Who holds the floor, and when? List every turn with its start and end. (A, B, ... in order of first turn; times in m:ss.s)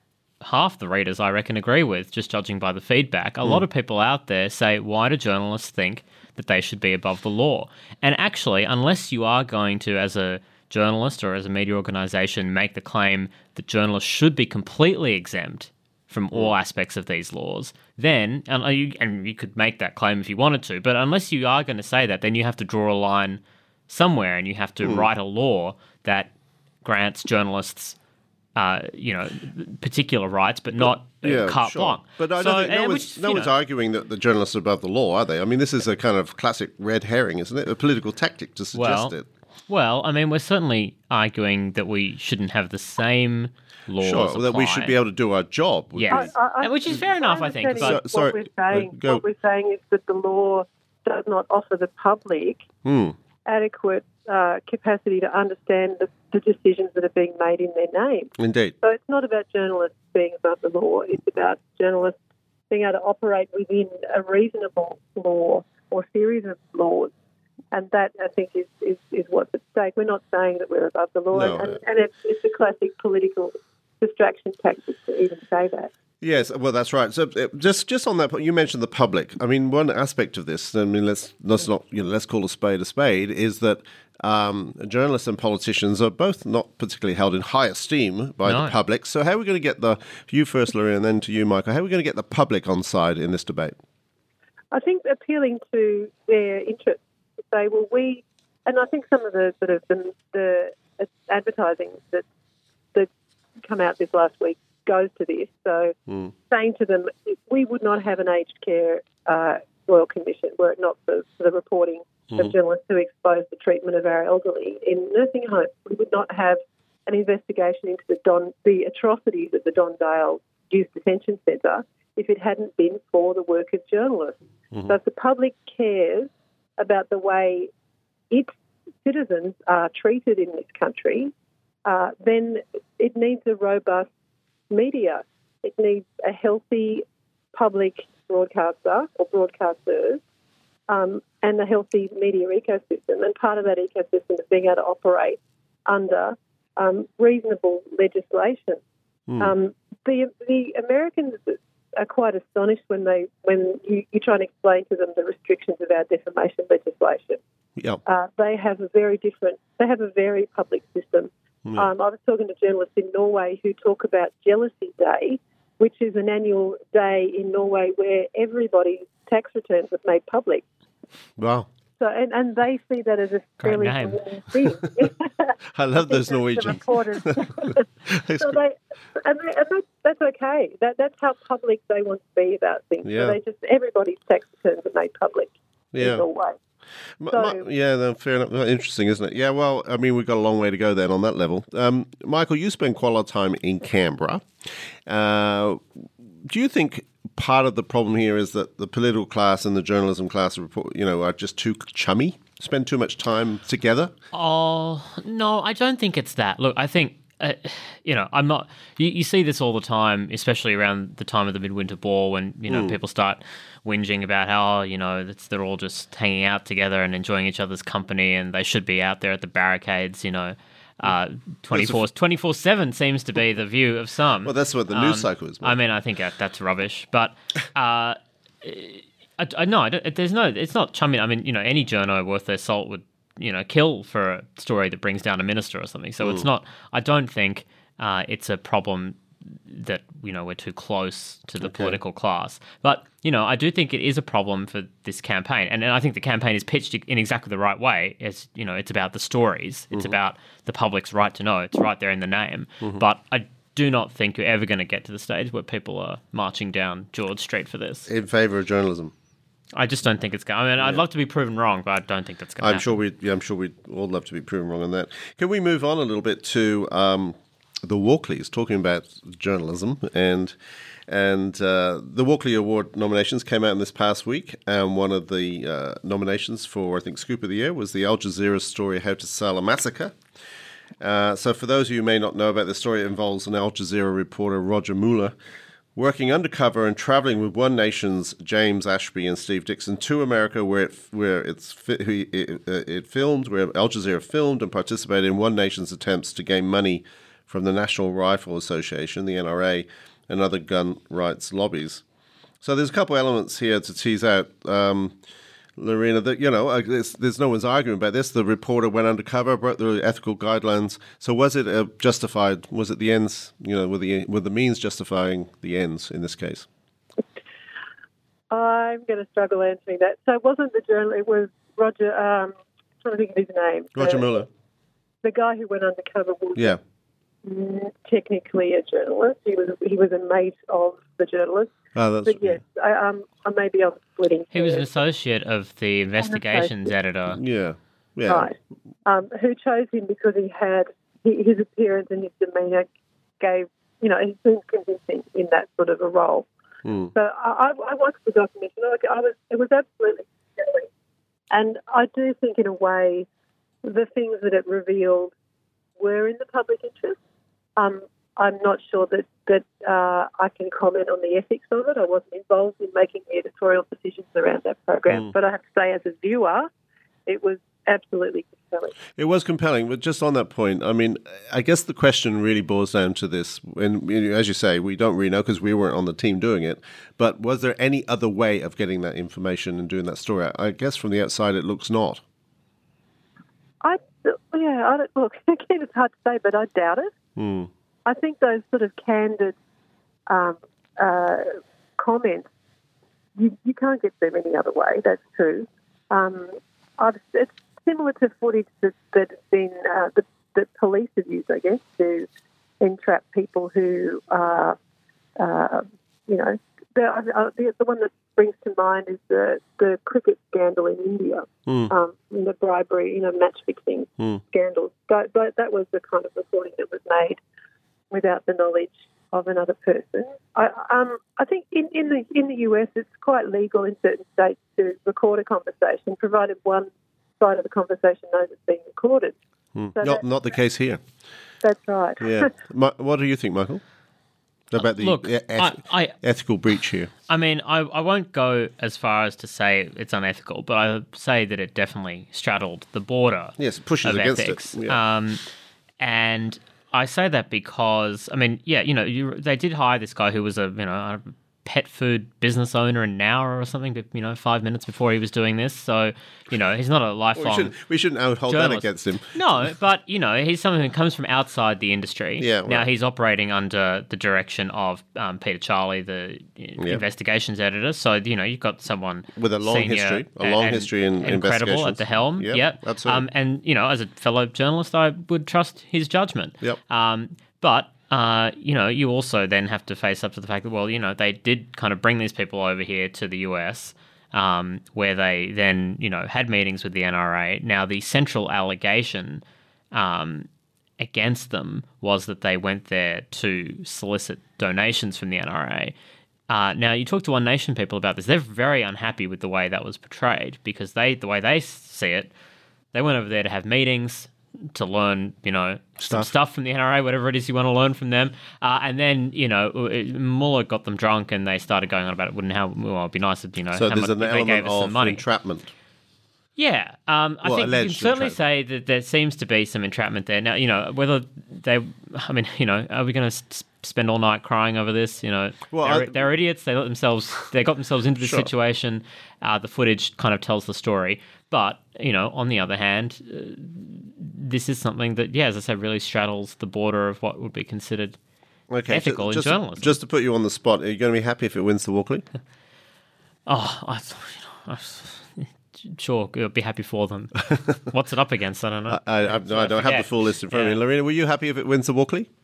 0:00.4-0:26.3 A
0:24.8-0:25.1 B
0:26.8-0:28.0 A
0:28.6-0:33.5 A
0:30.8-0:39.3 B
0:38.7-0:39.2 A
0:39.7-0:45.0 A
0:44.0-0:46.3 B
0:46.0-0:48.0 A
0:46.1-0:52.7 C
0:47.8-0:49.2 B
0:52.8-0:53.2 B
0:53.5-1:02.2 C
0:58.4-0:58.7 B
1:02.7-1:07.1 C
1:07.7-1:15.9 C
1:11.3-1:11.8 B
1:16.2-1:33.8 B
1:28.4-1:28.8 A
1:34.7-1:42.3 C
1:43.6-1:46.0 C
1:46.5-2:07.7 C
2:08.3-2:11.3 C
2:11.8-2:14.1 C
2:14.7-2:20.2 C
2:20.9-2:28.8 C
2:29.3-2:29.5 B
2:29.4-2:37.4 C
2:38.0-2:50.7 C
2:51.4-2:51.7 B
2:52.0-2:57.9 C
2:53.6-2:54.2 A
2:55.7-2:58.6 B
2:58.4-3:06.6 C
3:03.0-3:03.4 B
3:05.9-3:06.2 B
3:07.2-3:14.5 B
3:07.3-3:07.6 C
3:15.1-3:24.1 B
3:24.3-4:18.1 A
3:32.7-3:33.0 B
3:41.7-3:42.0 B
3:44.4-3:45.8 B
4:01.6-4:02.0 B
4:18.1-4:19.1 B
4:19.8-4:23.0 A
4:20.8-4:21.0 B
4:22.6-4:30.6 B
4:31.1-4:40.2 B
4:41.0-4:45.3 B
4:46.0-5:02.0 B
5:02.6-5:05.2 B
5:05.8-5:16.7 B
5:18.5-5:24.3 C
5:24.0-5:24.5 B
5:25.2-5:26.8 C
5:27.4-5:31.7 C
5:32.0-5:32.6 B
5:32.2-5:35.0 C
5:34.5-5:37.4 A
5:36.2-5:36.9 C
5:37.3-5:38.5 B
5:38.3-5:38.6 C
5:39.1-5:46.5 C
5:46.8-5:47.1 B
5:47.1-5:50.9 C
5:51.5-5:53.3 C
5:53.8-5:55.3 C
5:56.0-5:57.2 C
5:57.8-6:06.7 C
6:07.3-6:09.0 C
6:09.2-6:22.2 B
6:23.8-6:27.1 C
6:27.4-6:27.7 B
6:28.1-6:29.6 C
6:30.3-6:32.5 C
6:33.4-6:42.3 C
6:42.8-6:44.8 C
6:45.4-6:57.4 C
6:51.7-6:51.9 B
6:58.1-7:06.9 C
7:07.4-7:09.4 C
7:09.8-7:11.0 B
7:09.9-7:10.2 C
7:11.6-7:12.5 C
7:12.2-7:13.8 B
7:14.7-7:17.1 B
7:14.8-7:16.2 A
7:17.3-7:25.4 A
7:23.6-7:25.0 B
7:26.0-7:37.8 A
7:37.4-7:39.4 B
7:38.5-8:10.5 A
7:42.4-7:42.9 B
7:49.4-7:53.3 B
8:11.0-8:16.0 A
8:16.5-8:22.3 A
8:22.9-8:35.2 A
8:26.0-8:26.3 B
8:33.7-8:35.7 B
8:36.6-8:58.2 A
8:37.4-8:38.4 B
8:45.7-8:46.2 B
8:48.2-8:48.5 B
8:58.7-9:02.2 B
8:58.9-9:00.0 A
9:03.5-9:10.8 A
9:08.9-9:12.3 B